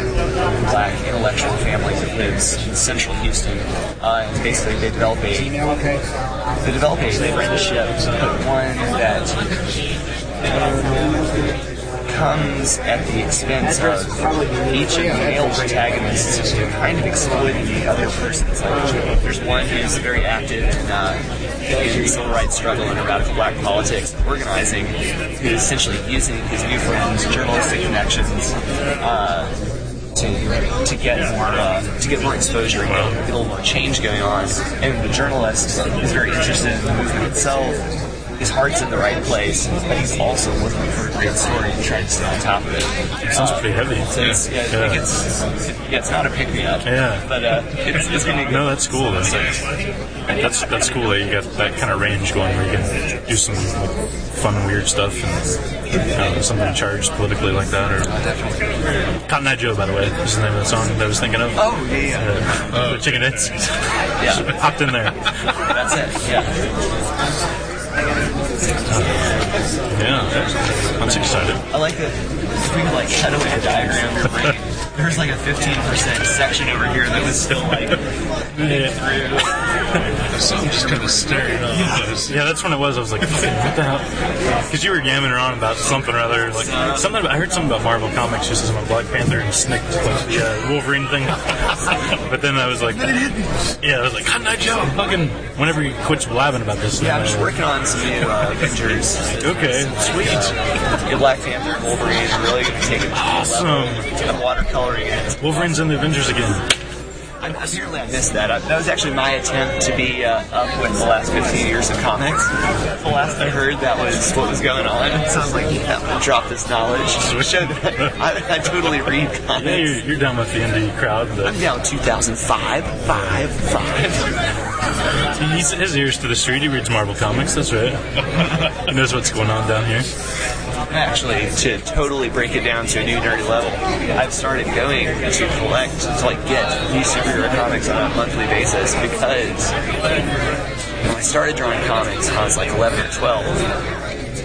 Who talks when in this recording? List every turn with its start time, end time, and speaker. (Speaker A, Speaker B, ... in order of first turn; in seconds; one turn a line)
Speaker A: 0.6-5.6
Speaker A: 6.6-9.4
Speaker A: 10.6-11.1
Speaker A: 12.1-29.5
Speaker A: 30.1-37.8
Speaker B: 32.9-33.1
Speaker A: 38.4-49.5
Speaker B: 43.2-45.0
Speaker B: 46.8-47.3
Speaker B: 48.3-49.5
Speaker B: 50.3-55.6
Speaker A: 55.9-56.2
Speaker B: 56.1-58.1
Speaker B: 59.3-65.7
Speaker A: 61.5-62.4
Speaker C: 62.7-63.7
Speaker A: 64.2-64.5
Speaker A: 65.7-66.5
Speaker B: 68.9-69.3
Speaker B: 69.9-70.3
Speaker B: 71.0-71.6
Speaker A: 71.7-78.0
Speaker B: 78.6-79.0
Speaker A: 78.6-79.4
Speaker C: 80.3-82.5
Speaker B: 82.2-84.1
Speaker B: 84.7-93.3
Speaker A: 86.5-87.1
Speaker B: 93.8-97.5
Speaker A: 97.0-105.8
Speaker B: 99.4-100.6
Speaker B: 103.2-104.1
Speaker B: 105.4-106.6
Speaker A: 107.4-120.0
Speaker B: 117.2-118.2
Speaker B: 119.6-121.6
Speaker A: 121.4-124.2
Speaker B: 123.0-123.5
Speaker B: 125.3-130.1
Speaker A: 130.9-139.7
Speaker A: 141.0-143.7